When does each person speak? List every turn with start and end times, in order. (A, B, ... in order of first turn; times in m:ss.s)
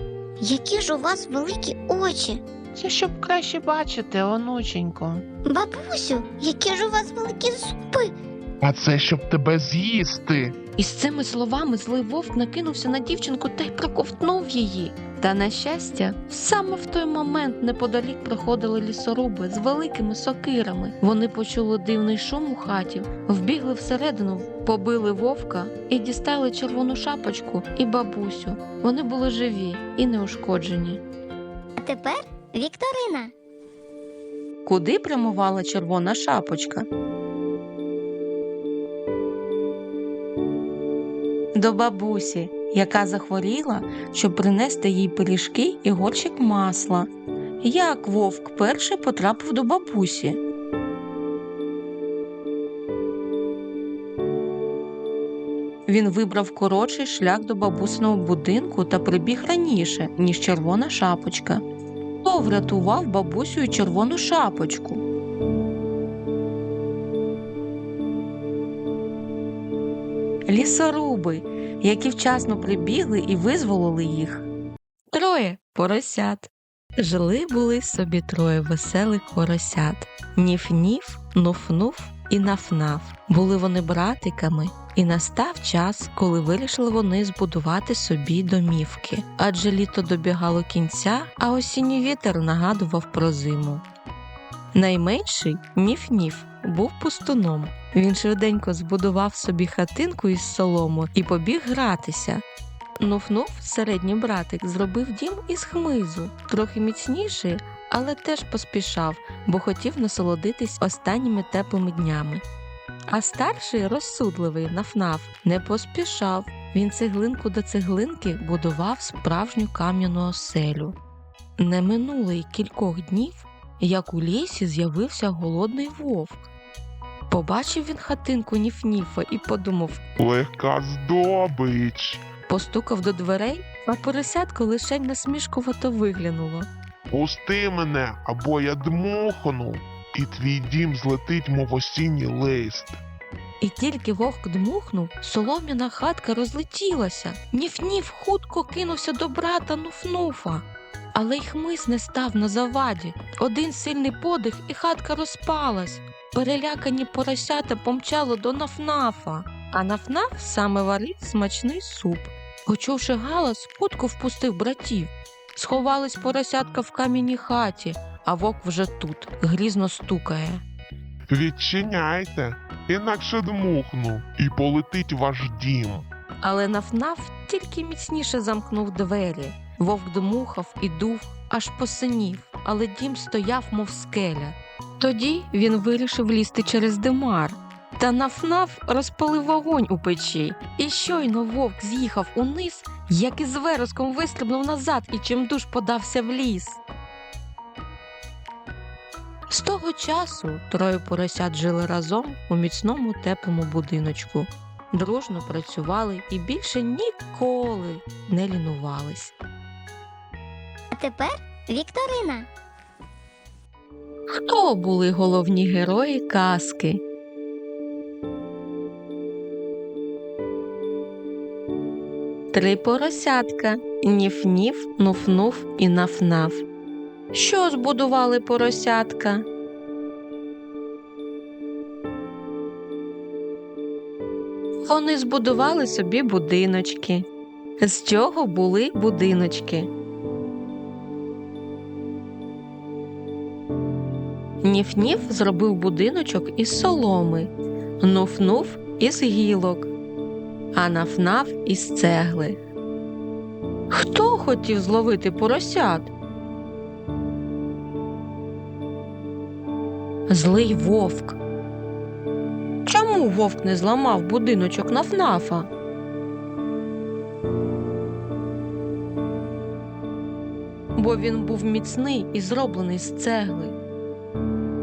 0:00.4-0:02.4 A
0:02.7-0:05.2 B
0:05.4-0:08.1 A
0:08.6-0:10.6 C
0:10.8-0:31.0 D
0:31.8-0:33.3 A
0:34.6-0:36.9 D
0:41.5-0:47.1 D
0:47.6-0:50.4 D
0:55.9-1:01.6 D
1:02.2-1:05.0 D
1:10.5-1:14.4 D
1:15.1-1:33.8 D
1:34.7-1:42.4 D
1:43.0-1:52.4 D
1:53.1-2:01.0 D
2:01.6-2:06.4 D
2:07.3-2:10.0 D
2:10.2-2:12.2 C
2:12.5-2:16.7 D
2:17.1-2:23.0 C
2:23.6-2:50.6 D
2:51.3-2:56.0 C
2:56.4-3:16.8 D
3:19.5-3:29.3 D
3:30.9-3:32.5 A
3:34.3-3:37.0 D
3:42.5-3:46.6 D
3:47.3-3:49.4 D
3:54.8-3:57.3 D
3:57.8-3:59.9 D
4:04.6-4:09.9 D
4:10.7-4:12.6 D
4:13.9-4:16.1 D
4:20.3-4:21.4 D
4:22.8-4:25.7 D
4:31.0-4:33.7 D